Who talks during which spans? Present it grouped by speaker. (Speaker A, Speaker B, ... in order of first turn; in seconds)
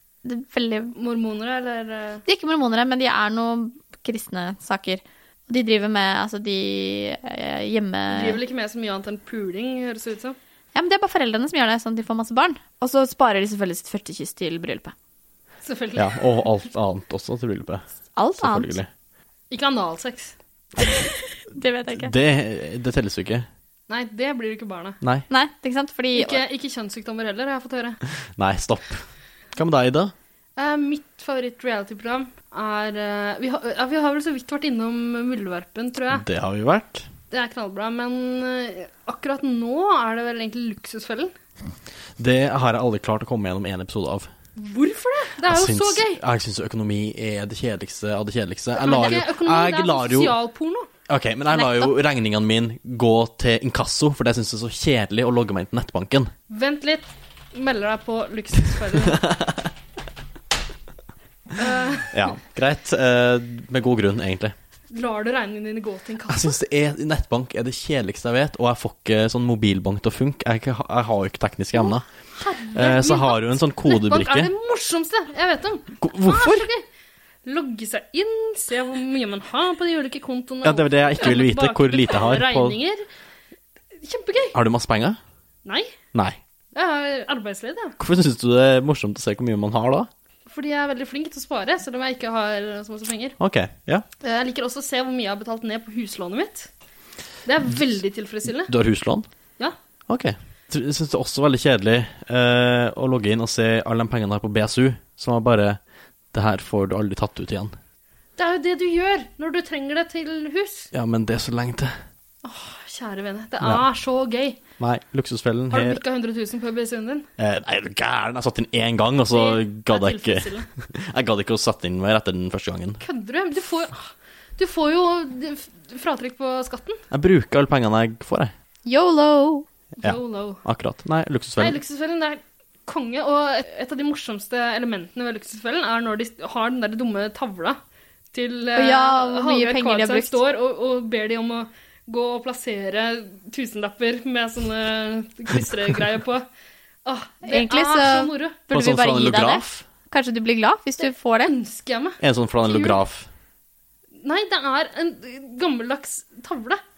Speaker A: 0.2-0.9, 2.3-8.4, 10.8-14.9, 18.2-18.8, 20.8-22.1, 25.3-26.4, 51.5-51.9, 128.9-129.7, 138.8-140.4, 147.5-151.5
Speaker B: 1.0-2.2, 8.1-10.4, 15.6-16.5, 19.5-20.4, 23.9-25.0, 26.1-28.0, 30.6-36.2, 37.3-41.3, 44.6-46.2, 48.8-50.9, 56.5-59.3, 61.5-62.3, 64.9-66.6, 71.8-76.8, 77.5-83.0, 84.0-84.6, 85.7-85.9, 86.8-88.0, 90.5-93.4, 94.2-96.7, 97.5-98.7, 108.4-110.9, 112.4-114.6, 115.7-117.3, 119.3-120.7, 123.0-127.0, 130.0-130.6, 131.6-137.8, 138.3-146.4, 147.1-148.6, 151.4-153.0, 154.2-156.8
Speaker C: 15.9-17.9, 18.4-18.9, 21.9-23.5, 28.4-29.0, 29.6-30.1, 36.1-37.1, 42.2-44.3, 45.5-50.4, 51.1-56.3, 59.1-59.7, 62.1-64.5, 66.3-72.0, 72.7-74.5, 76.0-76.7, 80.6-82.8, 84.5-85.2, 86.1-86.4, 88.0-90.1, 93.4-94.1, 98.7-99.3, 100.1-105.8, 106.3-107.8, 110.9-112.0, 114.8-116.0, 117.4-123.0, 127.1-128.5, 130.0-131.8, 148.7-149.8, 152.2-153.3